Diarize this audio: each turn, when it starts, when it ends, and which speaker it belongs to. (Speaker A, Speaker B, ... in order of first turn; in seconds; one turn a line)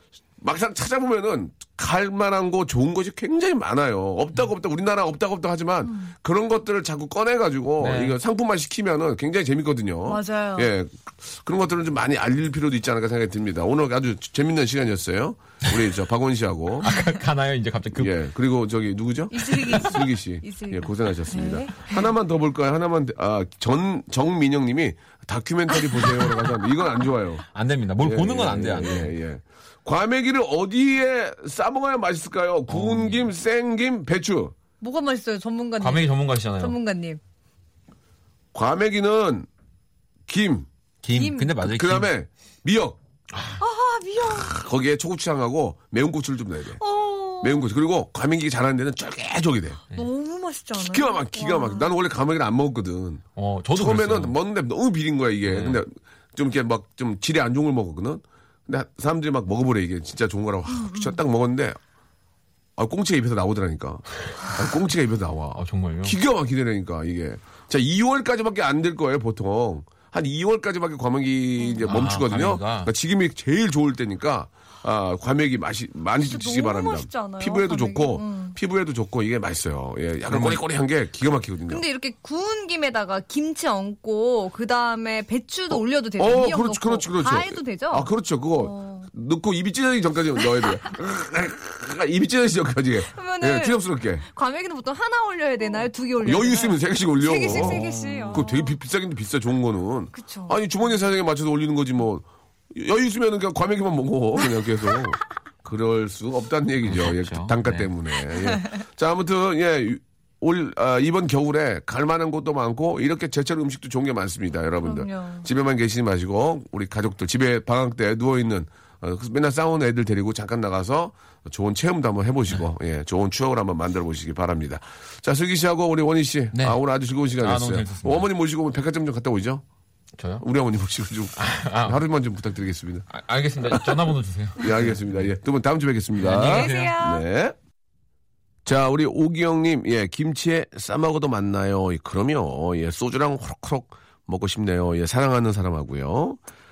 Speaker A: 0.4-16.9
Speaker B: 5.8-6.1
Speaker C: 7.8-8.2
Speaker B: 10.1-10.7
Speaker C: 16.8-18.1
Speaker A: 18.0-27.4
Speaker B: 19.3-22.1
Speaker C: 27.5-29.1
Speaker A: 28.0-34.5
Speaker C: 32.7-33.2
Speaker B: 34.8-37.2
Speaker C: 35.8-36.8
Speaker A: 38.5-39.5
Speaker A: 40.3-40.7
Speaker C: 41.0-42.1
Speaker B: 41.1-41.5
Speaker A: 41.6-43.0
Speaker B: 43.6-44.5
Speaker A: 44.2-46.8
Speaker B: 46.8-47.6
Speaker A: 47.4-49.8
Speaker B: 49.9-51.9
Speaker A: 50.7-61.8
Speaker C: 53.4-54.4
Speaker C: 55.5-55.8
Speaker B: 60.7-61.2
Speaker A: 62.8-81.8
Speaker C: 65.5-66.2
Speaker C: 71.8-72.9
Speaker B: 76.2-78.6
Speaker C: 80.3-80.6
Speaker B: 81.7-89.1
Speaker A: 85.7-94.2
Speaker B: 93.1-98.8
Speaker A: 96.2-129.6
Speaker C: 97.5-98.4
Speaker B: 100.1-100.6
Speaker C: 106.9-107.9
Speaker B: 108.4-108.7
Speaker B: 114.8-115.5
Speaker C: 126.5-126.8
Speaker C: 127.4-128.3
Speaker C: 130.2-130.4
Speaker A: 130.4-133.1
Speaker C: 131.4-132.0
Speaker C: 133.1-135.1
Speaker A: 133.7-134.0
Speaker A: 134.6-137.6
Speaker C: 136.2-137.0
Speaker B: 136.3-137.2
Speaker A: 138.6-146.4